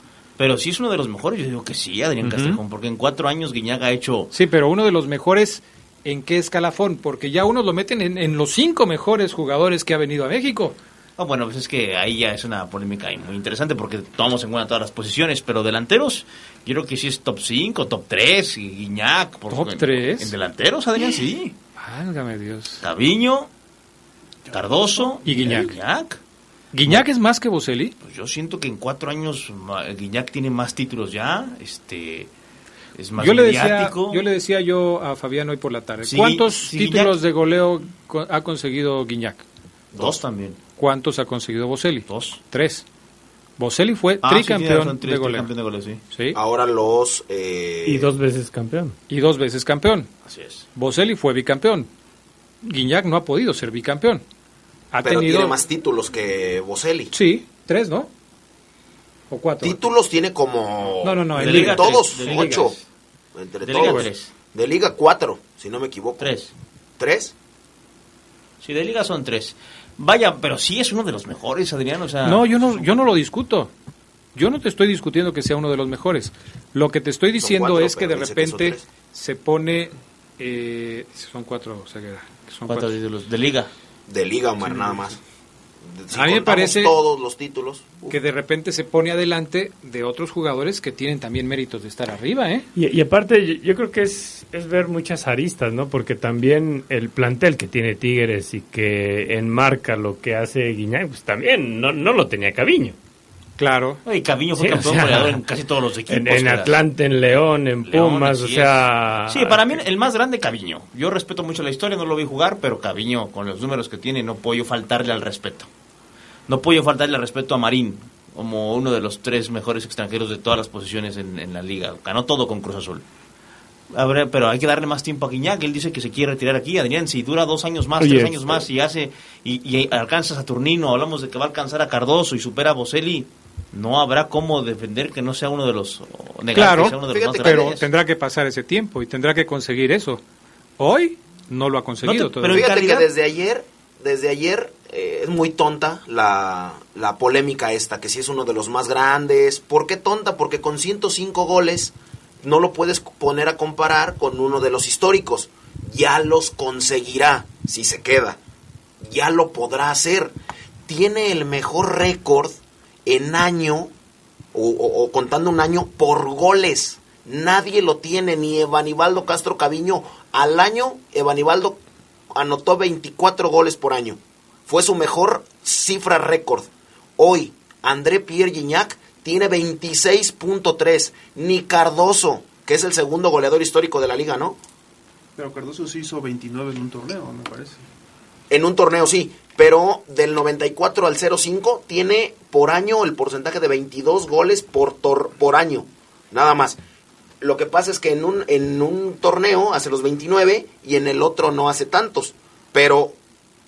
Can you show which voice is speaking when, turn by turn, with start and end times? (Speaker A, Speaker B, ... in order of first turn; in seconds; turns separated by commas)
Speaker A: 0.4-4.3, Speaker B: 2.2-2.6, Speaker B: 4.3-10.8, Speaker A: 11.2-21.5, Speaker B: 19.5-20.3, Speaker B: 21.8-22.8, Speaker A: 22.8-23.5, Speaker A: 24.5-26.2, Speaker B: 25.2-25.7, Speaker B: 26.7-27.9, Speaker A: 28.0-32.3, Speaker A: 32.9-34.2, Speaker B: 33.2-39.4, Speaker A: 36.0-37.1, Speaker A: 39.9-40.6, Speaker B: 40.8-42.8, Speaker A: 42.1-42.4, Speaker B: 43.6-45.5, Speaker A: 44.2-46.0, Speaker B: 46.1-46.4, Speaker C: 46.3-48.1, Speaker D: 47.8-48.9, Speaker B: 49.1-50.1, Speaker A: 50.2-50.6, Speaker B: 50.7-51.9, Speaker B: 52.6-54.2, Speaker B: 54.9-55.5, Speaker C: 55.0-57.1, Speaker B: 57.1-58.1, Speaker B: 59.3-59.8, Speaker C: 59.6-62.8, Speaker B: 61.0-62.8, Speaker A: 61.3-62.7, Speaker C: 63.4-66.3, Speaker A: 63.6-64.3, Speaker B: 63.7-64.1, Speaker A: 66.2-66.5, Speaker C: 67.0-67.3, Speaker A: 68.6-72.8, Speaker B: 72.2-73.7, Speaker B: 74.3-83.0, Speaker C: 77.4-78.8, Speaker A: 82.7-83.7, Speaker C: 84.1-85.2, Speaker C: 85.9-88.2, Speaker B: 86.1-86.9, Speaker B: 88.1-92.7, Speaker D: 92.8-102.9, Speaker B: 103.6-104.0, Speaker A: 104.0-106.8, Speaker D: 104.5-105.3, Speaker B: 104.8-105.2, Speaker D: 106.1-109.8, Speaker A: 107.8-115.7, Speaker A: 116.5-123.0, Speaker A: 123.9-137.8, Speaker B: 136.5-140.2, Speaker C: 136.9-137.7, Speaker B: 140.8-142.6, Speaker A: 142.0-143.1, Speaker C: 142.4-158.4, Speaker C: 159.0-160.3, Speaker C: 160.8-163.9, Speaker C: 164.5-171.8, Speaker C: 172.3-184.6, Speaker E: 185.4-187.8, Speaker C: 188.5-196.8, Speaker C: 197.4-203.2